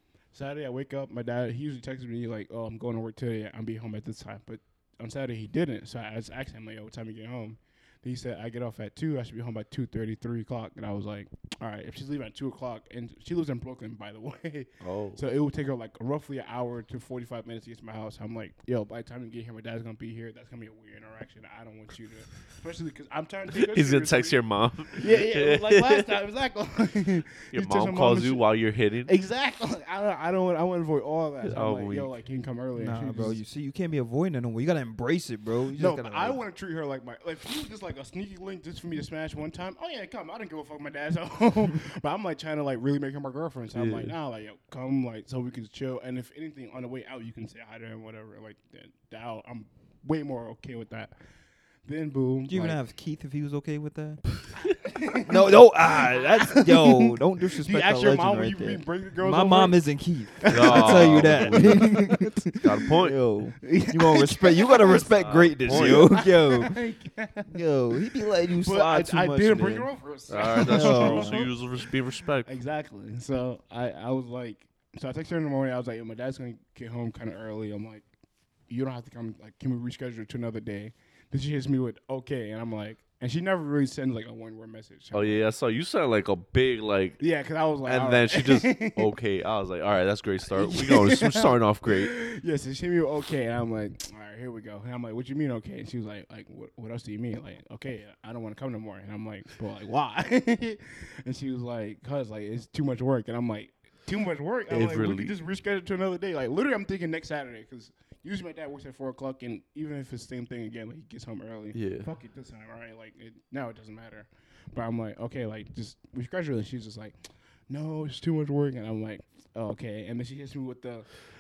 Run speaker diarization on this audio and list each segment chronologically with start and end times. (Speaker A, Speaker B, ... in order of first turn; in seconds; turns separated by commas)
Speaker A: 0.3-24.4, Speaker B: 14.8-15.2, Speaker B: 23.5-26.2, Speaker A: 24.9-28.5, Speaker B: 27.5-29.1, Speaker A: 29.1-33.4, Speaker B: 31.4-32.1, Speaker C: 32.8-36.4, Speaker A: 35.7-51.1, Speaker B: 43.7-44.1, Speaker A: 51.9-52.8, Speaker C: 52.5-54.3, Speaker A: 54.6-59.8, Speaker C: 55.2-66.8, Speaker A: 60.4-62.4, Speaker B: 60.5-62.0, Speaker B: 62.5-63.2, Speaker A: 63.6-65.1, Speaker B: 65.2-66.1, Speaker A: 65.7-67.5, Speaker C: 67.5-69.9, Speaker A: 68.5-71.9, Speaker B: 70.3-72.5, Speaker C: 70.5-71.4, Speaker A: 72.5-78.0, Speaker A: 78.7-85.4, Speaker B: 85.1-87.2, Speaker A: 87.2-89.1, Speaker B: 87.9-92.1, Speaker A: 90.5-117.2, Speaker B: 104.7-105.3, Speaker B: 111.7-112.1, Speaker A: 117.7-121.1